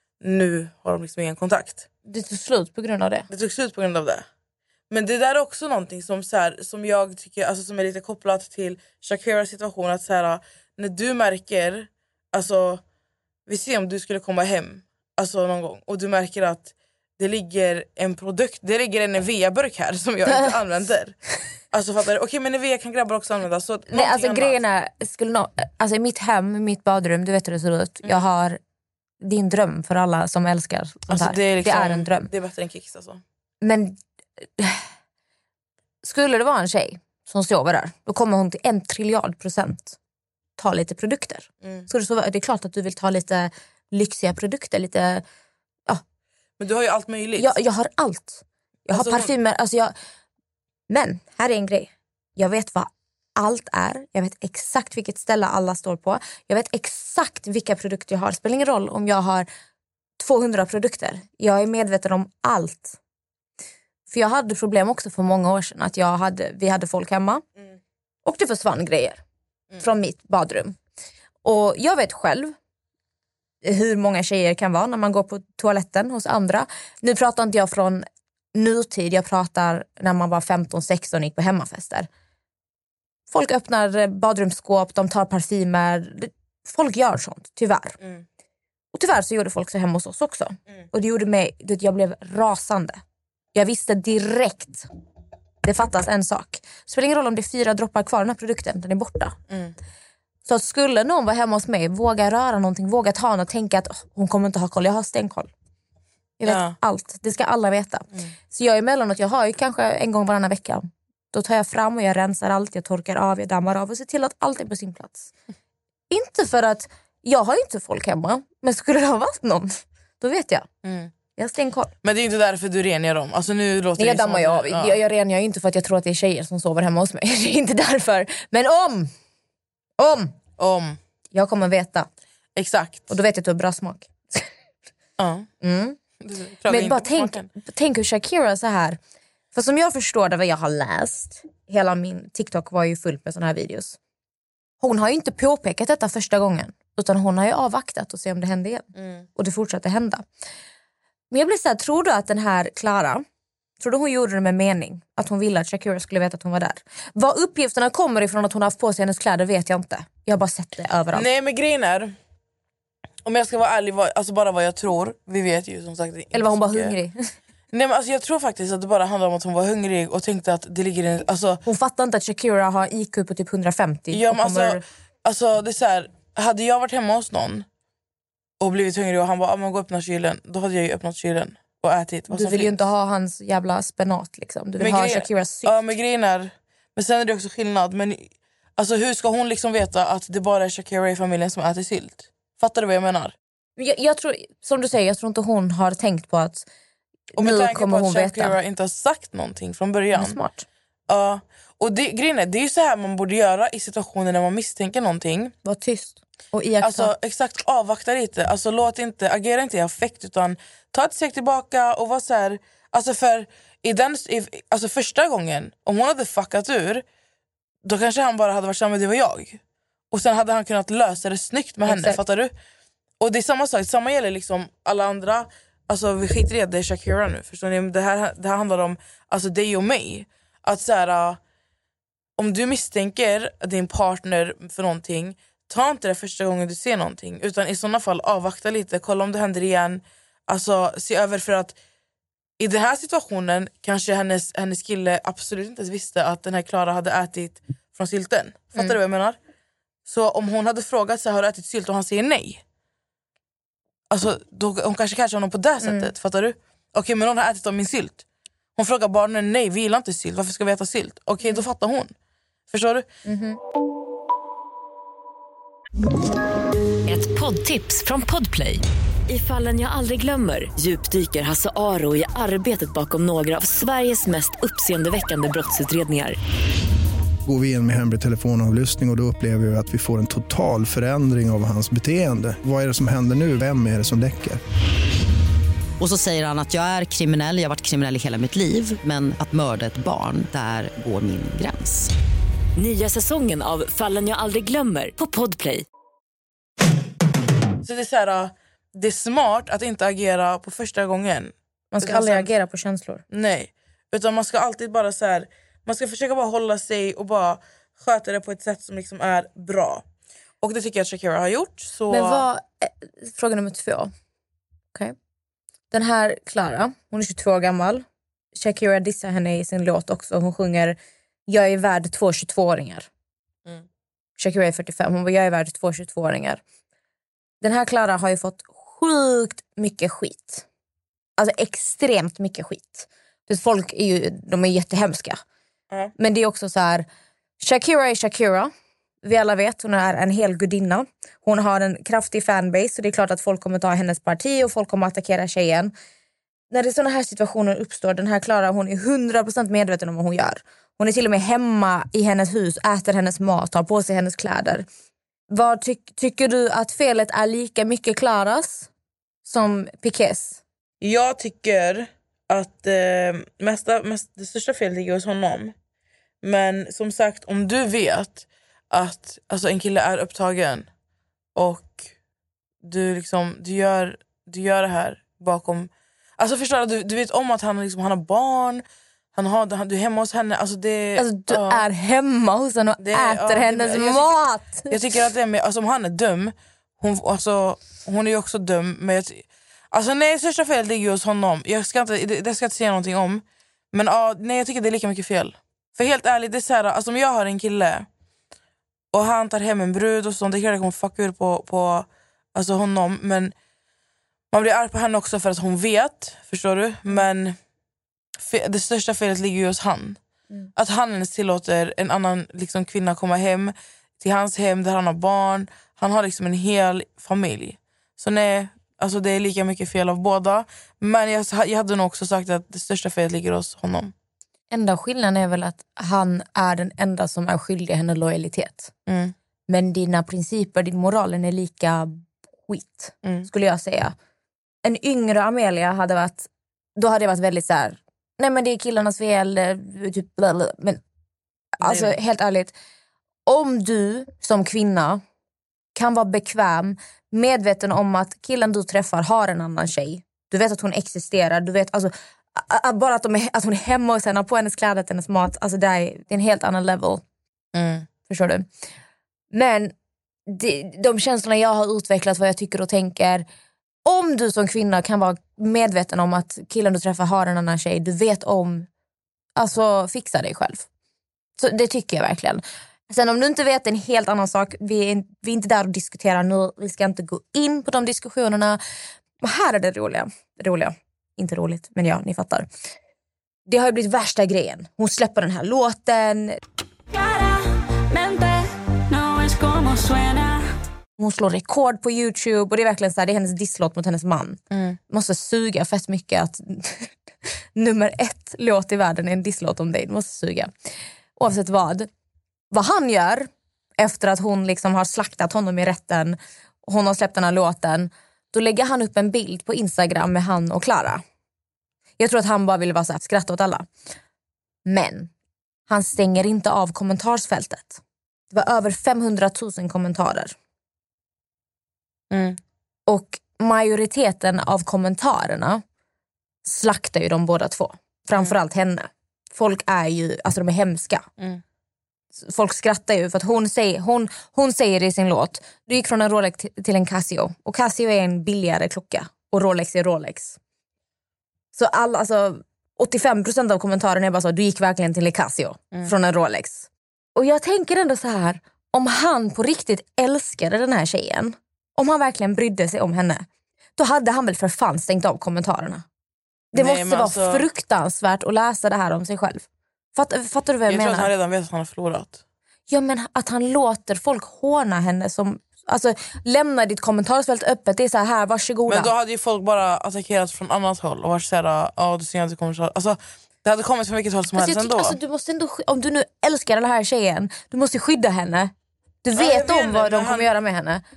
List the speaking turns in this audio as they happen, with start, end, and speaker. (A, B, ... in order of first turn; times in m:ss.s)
0:00.2-0:01.9 A
0:02.1-0:03.3 B
0:03.3-0:04.2 A
0:04.9-0:12.8 A
0:13.5-0:21.2 A
0:21.7-0:24.6 A
0:23.9-0:28.6 B
0:29.2-0:32.3 B
0:31.1-0:33.2 A
0:33.6-0:34.9 B
0:36.0-0:40.0 B
0:40.6-0:45.2 B
0:41.6-0:41.9 A
0:46.6-0:47.5 A
0:47.4-0:49.9 B
0:48.9-0:49.3 A
0:50.9-0:59.5 B
1:00.2-1:03.0 B
1:04.1-1:07.4 B
1:08.2-1:09.2 B
1:09.8-1:10.8 B
1:11.4-1:12.5 B
1:13.6-1:22.1 B
1:23.3-1:28.0 B
1:28.9-1:33.0 B
1:33.5-1:34.9 B
1:35.6-1:39.4 B
1:39.5-1:39.7 A
1:40.4-1:45.5 B
1:46.4-1:55.3 B
1:46.4-1:46.8 A
1:56.1-2:00.7 B
2:00.8-2:01.1 A
2:01.4-2:01.9 B
2:02.0-2:05.0 A
2:04.0-2:09.1 B
2:10.0-2:10.3 B
2:10.6-2:11.0 A
2:11.3-2:12.1 B
2:12.6-2:13.1 A
2:13.1-2:14.5 B
2:15.2-2:15.5 A
2:15.6-2:16.0 B
2:16.2-2:17.5 A
2:16.7-2:19.0 B
2:19.5-2:24.0 B
2:24.8-2:30.2 B
2:31.3-2:33.2 B
2:33.8-2:41.2 B
2:41.1-2:42.1 A
2:43.2-2:47.0 A
2:46.3-2:47.3 B
2:47.7-2:51.6 A
2:51.6-2:54.8 B
2:54.1-2:57.6 A
2:58.6-3:02.8 A
3:02.3-3:05.9 B
3:04.8-3:13.3 A
3:13.8-3:16.6 B
3:17.3-3:18.5 B
3:17.4-3:20.4 A
3:20.1-3:20.6 B
3:21.1-3:25.5 A
3:25.6-3:27.1 B
3:26.8-3:37.0 A
3:37.8-3:39.6 A
3:40.1-3:42.5 A
3:41.9-3:42.2 B
3:43.2-3:51.4 A
3:52.4-4:01.8 A
4:02.6-4:09.4 A
4:10.1-4:12.6 A
4:14.1-4:18.2 A
4:15.8-4:16.1 B
4:18.8-4:22.1 A
4:22.7-4:23.0 A
4:23.2-4:23.6 B
4:27.1-4:36.4 C
4:37.4-4:44.6 D
4:46.0-4:52.1 E
4:52.8-4:55.8 C
4:57.8-5:02.5 A
5:01.9-5:03.2 B
5:03.3-5:10.0 A
5:10.6-5:12.4 A
5:12.1-5:14.1 B
5:15.9-5:18.0 B
5:18.5-5:21.0 B
5:21.5-5:23.1 B
5:24.4-5:26.6 B
5:27.6-5:30.6 B
5:31.4-5:35.4 B
5:36.2-5:37.0 B
5:37.6-5:38.7 B
5:39.2-5:45.9 B
5:46.7-5:54.8 B
5:55.5-5:58.9 B
5:59.4-6:00.6 B
6:01.0-6:05.7 A
6:06.4-6:10.9 A
6:11.6-6:12.0 A
6:12.8-6:18.8 A
6:19.3-6:21.8 A
6:21.2-6:25.0 B
6:23.0-6:24.4 A
6:24.9-6:38.0 A
6:39.1-6:43.5 A
6:44.5-6:47.6 A
6:48.4-6:50.2 A
6:50.8-7:04.1 A
7:04.7-7:08.9 B
7:09.1-7:09.3 A
7:09.7-7:14.2 B
7:13.2-7:13.5 A
7:14.8-7:21.0 B
7:21.8-7:22.7 B
7:21.8-7:22.1 A
7:23.5-7:25.2 B
7:25.9-7:37.2 B
7:37.7-7:38.1 A
7:38.3-7:38.6 B
7:39.5-7:39.9 B
7:40.5-7:43.4 B
7:44.0-7:48.9 B
7:49.6-7:50.9 B
7:51.6-7:58.8 B
7:59.4-8:02.6 B
8:03.7-8:06.6 B
8:07.1-8:10.6 F
8:11.2-8:17.1 B
8:14.7-8:15.0 A
8:17.7-8:20.7 B
8:21.4-8:22.1 B
8:22.7-8:31.2 B
8:32.2-8:33.9 B
8:34.8-8:35.3 B
8:35.9-8:38.0 B
8:38.5-8:40.5 B
8:42.3-8:42.6 A
8:43.1-8:45.8 B
8:46.6-8:51.3 B
8:52.4-9:00.6 B
9:01.7-9:13.4 B
9:14.0-9:16.0 B
9:16.7-9:17.6 A
9:16.7-9:21.3 B
9:20.9-9:22.4 A
9:22.9-9:29.1 B
9:28.9-9:35.2 A
9:34.6-9:38.7 B
9:39.2-9:41.0 B
9:39.4-9:40.5 A